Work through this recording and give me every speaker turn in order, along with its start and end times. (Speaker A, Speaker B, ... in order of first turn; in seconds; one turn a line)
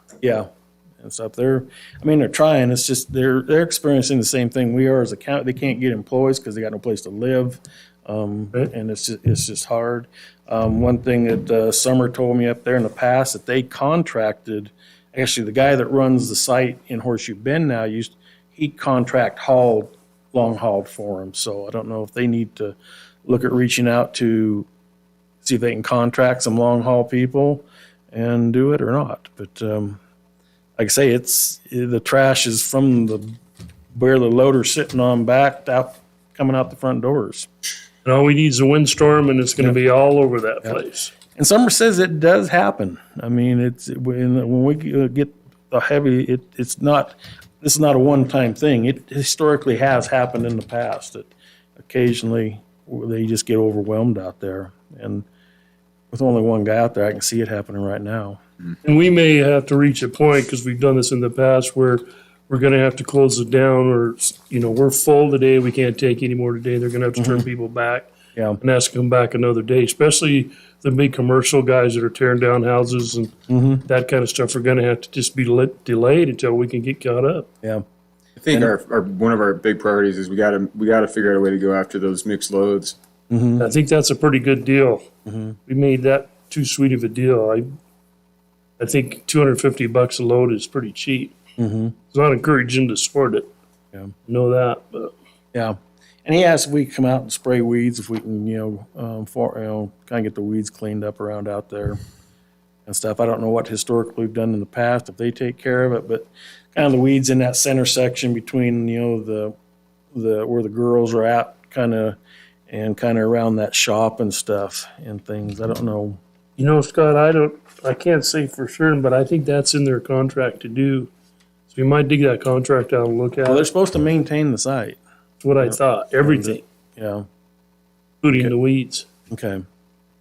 Speaker A: 0.2-0.5
Speaker A: 1.0-24.7
Speaker A: 25.4-30.0
Speaker A: 30.8-33.4
Speaker A: 33.9-37.5
Speaker B: 38.0-41.1
Speaker A: 41.3-55.2
Speaker A: 56.1-58.4
Speaker B: 58.8-68.1
Speaker A: 67.2-67.5
Speaker A: 68.3-68.6
Speaker B: 68.6-73.3
Speaker A: 73.5-73.8
Speaker B: 73.8-77.5
Speaker C: 78.4-83.0
Speaker A: 83.3-83.7
Speaker B: 83.6-85.0
Speaker A: 85.2-85.6
Speaker B: 85.7-87.7
Speaker B: 88.8-91.4
Speaker A: 91.6-92.0
Speaker B: 92.1-93.5
Speaker B: 94.3-95.1
Speaker A: 95.5-102.0
Speaker A: 102.8-109.5
Speaker A: 110.1-112.2
Speaker A: 112.7-116.2
Speaker B: 116.6-121.1
Speaker B: 121.7-123.7
Speaker A: 123.4-125.0
Speaker B: 125.4-126.6
Speaker A: 125.6-127.2
Speaker B: 128.2-129.1
Speaker A: 129.3-129.6